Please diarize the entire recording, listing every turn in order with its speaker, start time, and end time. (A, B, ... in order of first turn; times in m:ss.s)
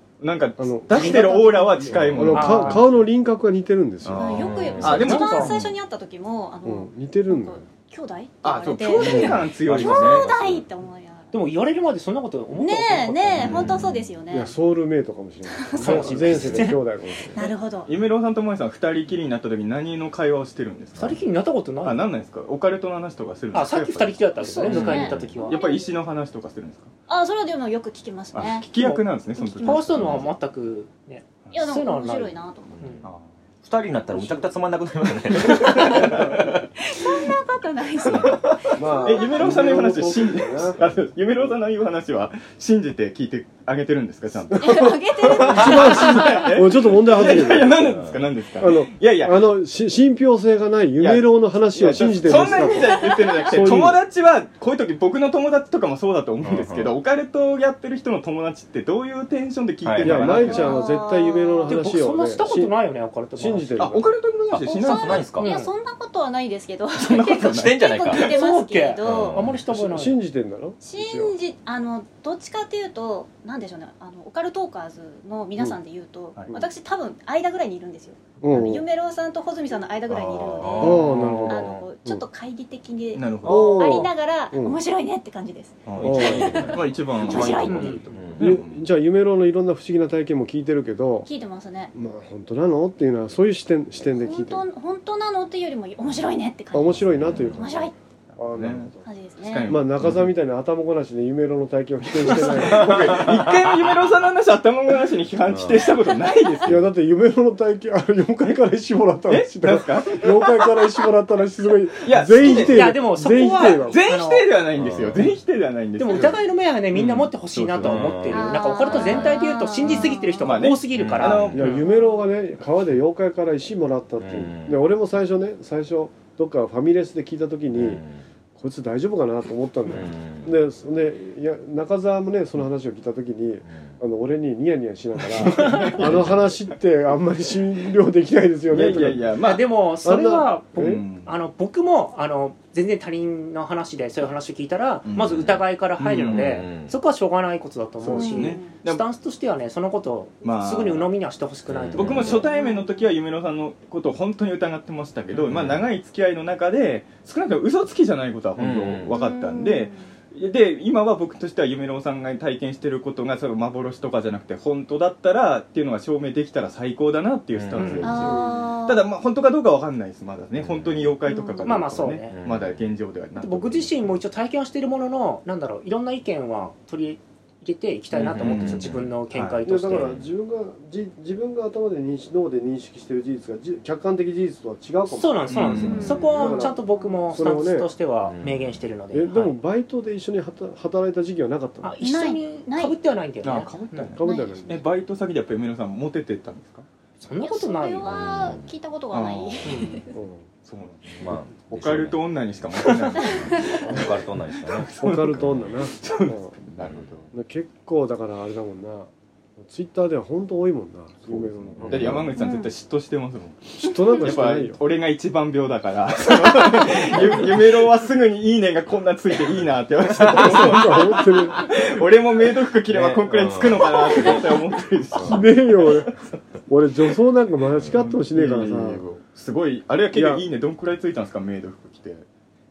0:00.2-0:02.9 A
0:00.6-0:01.4 B
0:00.9-0:01.9 C
0:00.9-0:02.8 D
0:01.9-0:04.4 B
0:01.9-0:02.3 E
0:04.0-0:05.7 A
0:04.2-0:11.4 C
0:04.4-0:05.2 E
0:04.9-0:05.6 D
0:06.6-0:07.6 B
0:08.4-0:10.3 A
0:09.0-0:09.4 B
0:09.1-0:10.6 E
0:11.3-0:13.5 D
0:12.5-0:14.5 C
0:13.4-0:14.0 E
0:14.3-0:17.4 B
0:15.5-0:16.7 C
0:15.7-0:16.8 D
0:17.3-0:17.9 C
0:17.8-0:21.2 A
0:21.0-0:22.0 D
0:21.8-0:26.9 A
0:23.5-0:25.6 D
0:24.4-0:25.9 C
0:24.8-0:25.3 E
0:27.1-0:28.7 C
0:28.3-0:30.2 A
0:28.7-0:33.0 D
0:29.4-0:30.2 C
0:30.0-0:30.2 E
0:31.5-0:32.9 C
0:33.6-0:36.6 E
0:35.4-0:36.5 A
0:35.6-0:36.2 C
0:36.8-0:39.8 C
0:38.1-0:49.4 A
0:38.7-0:40.9 B
0:44.5-0:48.0 B
0:44.6-0:46.6 C
0:47.7-0:48.3 E
0:48.6-0:54.0 B
0:51.0-1:00.8 A
0:52.5-0:53.7 C
0:56.4-0:57.0 E
0:59.8-1:00.5 E
1:00.0-1:02.7 B
1:00.4-1:01.8 C
1:01.7-1:03.8 D
1:03.4-1:04.1 B
1:03.8-1:05.3 A
1:04.5-1:05.5 E
1:04.7-1:09.4 C
1:05.4-1:05.7 D
1:07.0-1:08.3 A
1:07.5-1:08.3 E
1:08.3-1:10.2 D
1:09.0-1:09.6 E
1:09.7-1:11.3 B
1:10.8-1:28.2 C
1:18.4-1:18.8 B
1:20.1-1:21.6 A
1:20.6-1:21.8 E
1:20.8-1:22.2 B
1:23.1-1:24.1 A
1:23.4-1:24.8 B
1:25.8-1:28.8 A
1:26.0-1:28.5 E
1:26.0-1:26.6 B
1:27.7-1:28.0 D
1:28.4-1:31.3 B
1:31.2-1:31.9 C
1:31.9-1:34.6 B
1:34.1-1:37.9 C
1:36.7-1:39.0 B
1:37.1-1:37.6 E
1:38.5-1:38.9 A
1:39.0-1:39.7 C
1:39.4-1:40.2 A
1:39.7-1:43.3 B
1:42.2-1:46.9 A
1:42.7-1:43.5 E
1:45.4-1:45.9 E
1:46.6-1:54.0 B
1:49.3-1:50.9 A
1:52.0-1:53.0 A
1:52.5-1:54.5 D
1:53.6-1:56.4 A
1:54.8-1:55.2 E
1:56.0-2:01.8 D
1:56.9-1:58.2 A
1:57.8-1:59.3 E
1:58.3-2:00.7 C
2:00.4-2:01.8 A
2:00.9-2:01.7 E
2:01.5-2:08.0 B
2:01.8-2:02.2 C
2:04.2-2:04.8 E
2:07.7-2:08.2 E
2:08.6-2:19.3 B
2:09.9-2:10.6 E
2:15.3-2:16.4 A
2:16.0-2:16.3 E
2:18.7-2:19.7 A
2:19.4-2:32.5 D
2:20.0-2:21.0 B
2:20.7-2:21.3 A
2:25.0-2:26.5 A
2:25.2-2:25.6 E
2:26.3-2:26.9 E
2:28.0-2:28.5 B
2:28.1-2:28.8 C
2:28.2-2:29.0 A
2:30.4-2:31.1 A
2:31.7-2:32.5 E
2:31.9-2:54.2 A
2:32.2-2:33.1 C
2:35.5-2:35.8 E
2:38.6-2:39.1 E
2:39.1-2:40.1 C
2:47.5-2:48.4 E
2:47.8-2:48.3 D
2:48.0-2:49.1 C
2:50.6-2:51.2 E
2:51.2-2:51.8 C
2:51.6-2:52.3 D
2:52.3-2:52.9 E
2:53.4-3:00.1 D
2:58.2-2:59.1 E
2:58.2-2:59.6 A
2:59.6-3:07.9 B
2:59.9-3:00.2 E
3:05.1-3:09.6 D
3:05.5-3:06.2 A
3:05.8-3:07.4 C
3:08.2-3:08.8 E
3:09.1-3:12.0 B
3:11.8-3:14.1 D
3:12.0-3:13.0 C
3:13.4-3:16.8 A
3:14.2-3:14.8 B
3:14.2-3:14.8 C
3:17.2-3:18.1 D
3:17.4-3:20.1 C
3:18.1-3:18.7 E
3:19.1-3:19.7 A
3:19.6-3:20.0 D
3:20.1-3:20.4 B
3:20.6-3:27.3 A
3:21.2-3:22.2 E
3:23.1-3:25.7 E
3:23.2-3:23.8 C
3:23.8-3:24.1 B
3:25.0-3:26.5 B
3:27.3-3:32.3 B
3:31.3-3:45.9 A
3:31.7-3:32.3 E
3:32.4-3:32.7 C
3:33.8-3:34.8 B
3:40.2-3:41.7 B
3:42.9-3:44.5 E
3:45.1-3:45.4 E
3:45.2-3:46.1 B
3:46.7-3:49.0 B
3:47.9-3:52.2 A
3:50.1-3:50.4 B